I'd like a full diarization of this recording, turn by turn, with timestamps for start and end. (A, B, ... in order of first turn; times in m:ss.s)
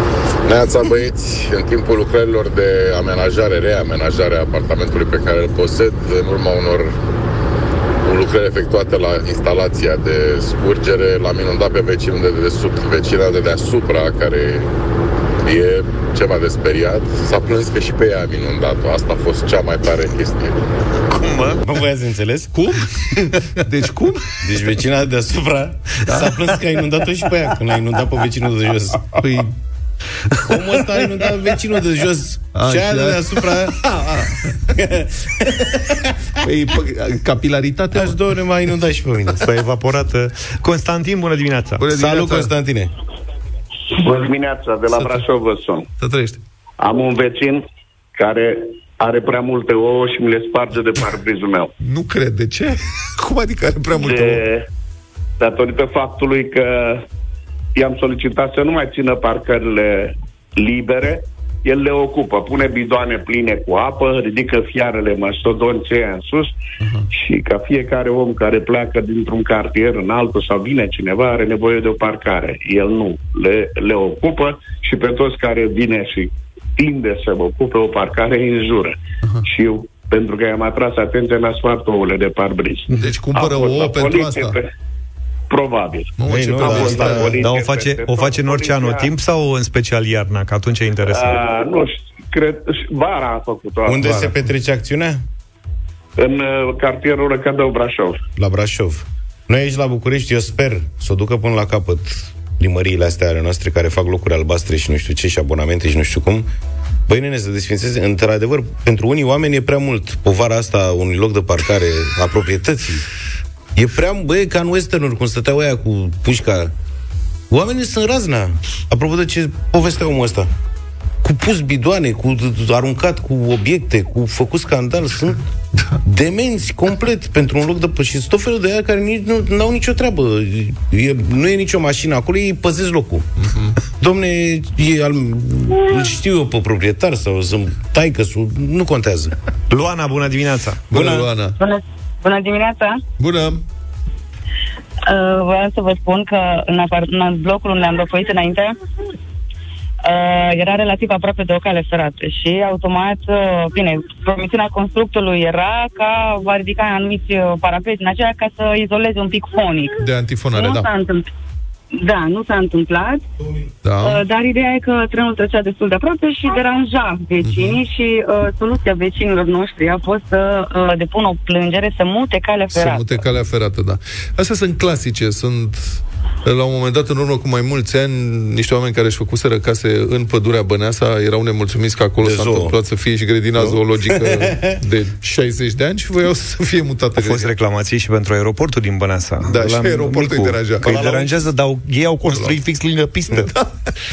0:00.5-0:06.9 A
0:08.0-0:14.7 A
0:15.4-0:20.6 A
0:21.1-0:21.6 B
0:21.6-0:22.5 C
0:22.5-0:24.3 D
0:24.4-0:29.2 C
0:29.1-0:29.5 D
0:30.5-0:33.9 C
0:32.5-0:34.5 D
0:34.7-0:36.2 C
0:36.4-0:38.2 D
0:37.9-0:39.4 C
0:39.4-0:41.8 B
0:41.8-0:42.5 D
0:41.9-0:42.9 C
0:44.0-0:45.9 E
0:46.0-0:46.4 D
0:46.8-0:51.7 E
0:51.8-0:54.4 D
0:53.9-0:54.6 E
0:55.4-0:57.0 E
0:57.7-1:06.5 E
1:07.1-1:24.7 E
1:22.9-1:24.6 D
1:25.5-1:29.1 E
1:26.2-1:27.4 D
1:26.3-1:27.3 C
1:27.4-1:31.4 B
1:31.0-1:34.3 E
1:33.8-1:35.2 C
1:36.2-1:38.2 E
1:38.4-1:46.5 C
1:47.1-1:53.0 C
1:53.8-1:56.7 C
1:57.5-2:00.5 C
2:01.2-2:05.4 C
2:06.0-2:13.2 C
2:13.4-2:13.8 D
2:14.0-2:19.3 C
2:19.7-2:20.8 B
2:20.9-2:21.6 D
2:20.9-2:21.3 C
2:21.6-2:23.0 F
2:23.2-2:23.6 D
2:25.1-2:28.8 F
2:30.0-2:40.0 F
2:40.0-2:40.9 D
2:40.5-2:41.2 F
2:41.9-2:43.2 F
2:43.8-2:44.2 D
2:44.0-2:53.1 F
2:47.4-2:47.8 D
2:52.7-3:07.5 D
3:02.2-3:02.8 C
3:03.6-3:04.8 C
3:07.2-3:13.5 B
3:09.4-3:10.9 D
3:10.8-3:11.5 C
3:13.3-3:13.9 D